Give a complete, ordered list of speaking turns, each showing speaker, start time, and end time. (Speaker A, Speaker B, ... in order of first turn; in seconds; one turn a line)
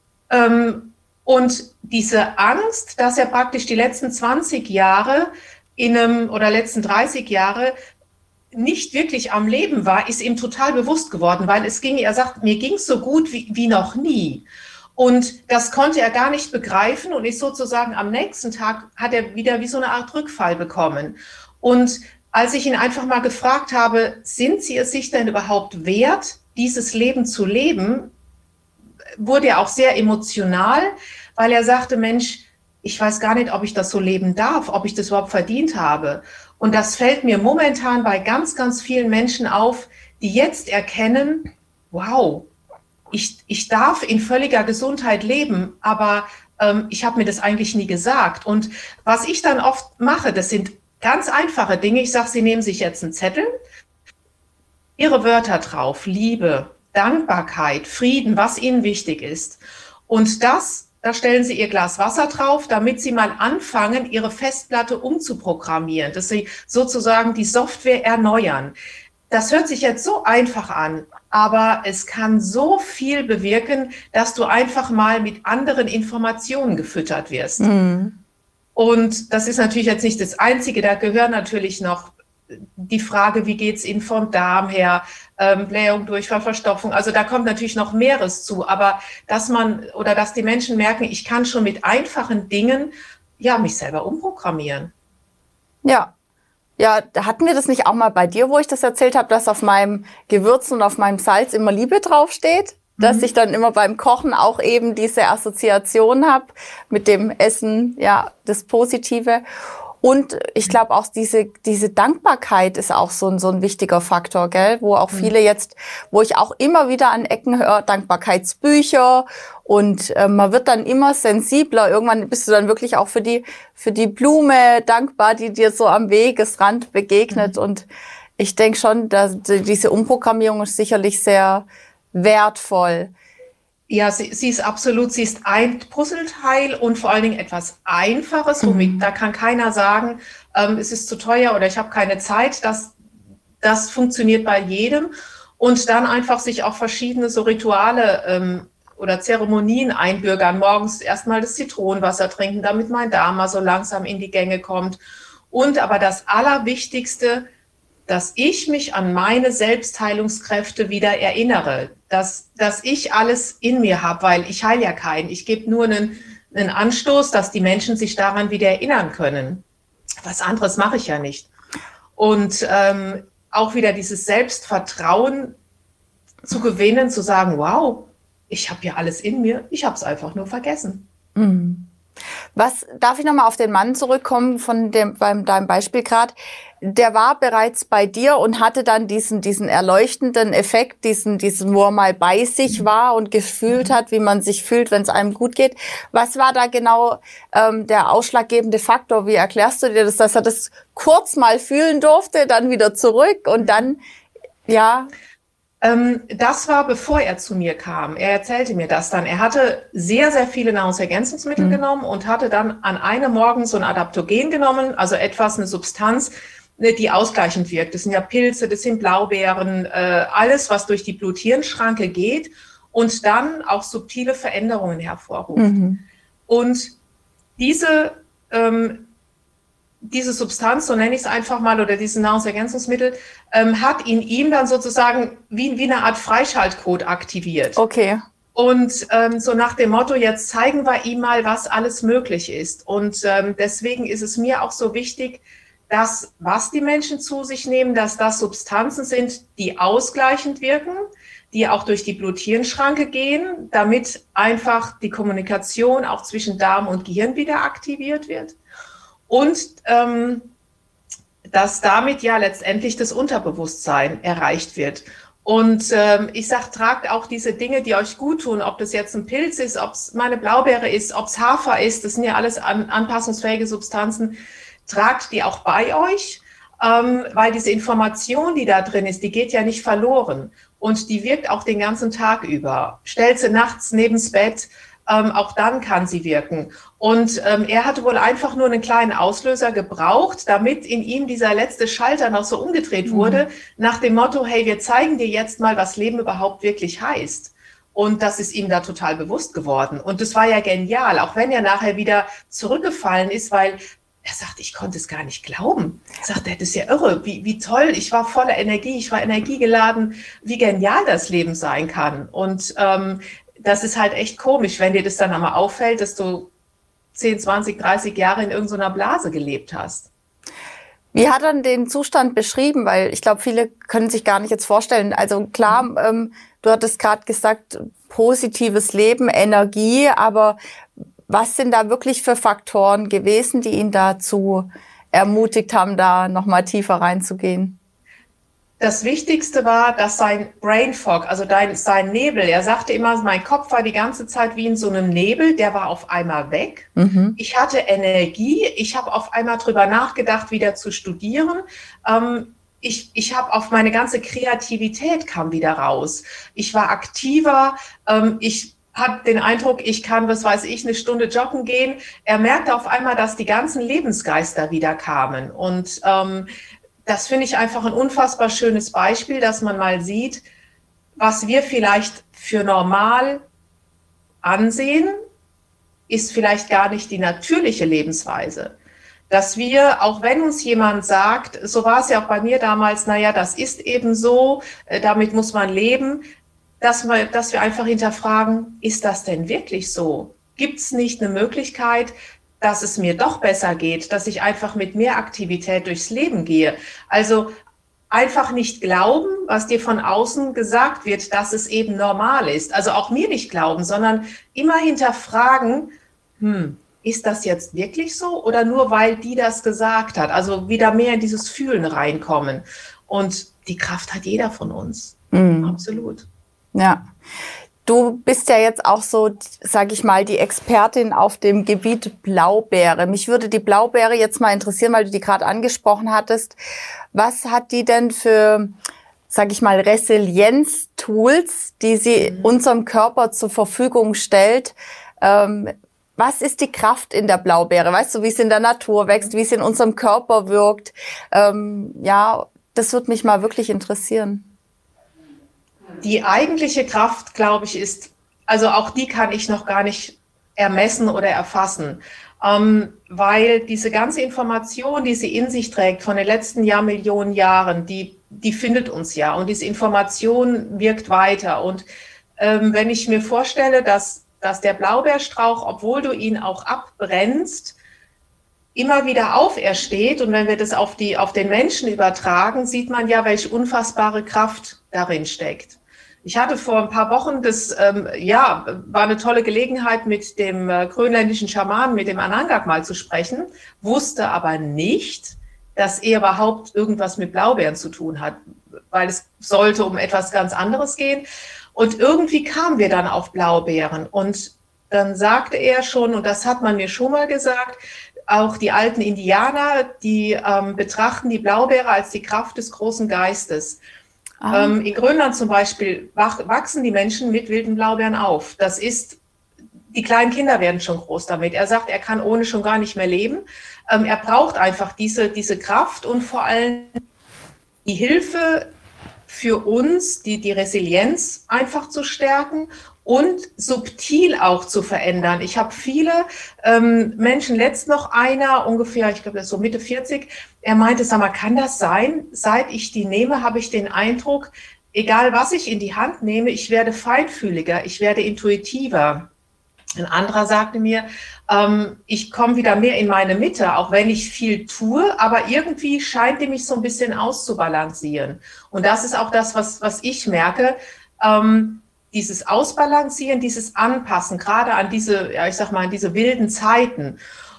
Speaker A: 0.3-7.7
Speaker A: 8.5-28.1
Speaker A: 29.2-42.5
Speaker A: 43.1-53.5
Speaker A: 55.0-68.7
Speaker A: 69.3-77.7
Speaker B: 77.6-78.2
Speaker A: 78.8-94.9
Speaker B: 95.8-96.1
Speaker B: 96.8-109.4
Speaker A: 103.0-103.3
Speaker B: 110.0-127.9
Speaker B: 128.4-133.1
Speaker A: 133.9-142.9
Speaker B: 138.6-139.1
Speaker A: 143.6-155.0
Speaker A: 155.5-157.4
Speaker A: 158.1-169.6
Speaker A: 170.2-171.5
Speaker A: 172.2-175.6
Speaker A: 176.5-181.1
Speaker B: 181.3-181.9
Speaker B: 182.5-204.0
Speaker A: 203.6-203.8
Speaker B: 204.7-205.1
Speaker A: 205.8-225.7
Speaker B: 225.6-226.0
Speaker A: 226.5-226.9
Speaker A: 227.6-229.1
Speaker A: 230.0-237.8
Speaker B: 237.8-238.2
Speaker A: 238.5-258.6
Speaker A: 259.3-260.5
Speaker A: 261.5-316.5
Speaker B: 293.1-293.4
Speaker A: 317.1-320.1
Speaker B: 321.1-330.6
Speaker B: 331.3-337.8
Speaker A: 338.8-366.5
Speaker B: 347.0-347.4
Speaker A: 367.1-370.4
Speaker A: 371.2-373.4
Speaker A: 374.4-375.2
Speaker A: 376.1-378.8
Speaker A: 379.3-386.2
Speaker A: 386.8-397.5
Speaker A: 398.1-416.2
Speaker B: 415.3-415.8
Speaker B: 416.7-417.0
Speaker B: 417.9-426.6
Speaker B: 427.1-428.8
Speaker B: 429.3-444.5
Speaker A: 446.0-461.9
Speaker A: 462.4-467.8
Speaker A: 468.7-488.4
Speaker A: 488.9-503.8
Speaker B: 504.4-504.8
Speaker A: 504.5-509.2
Speaker A: 509.9-517.0
Speaker A: 517.8-518.7
Speaker A: 519.3-539.3
Speaker A: 540.0-557.2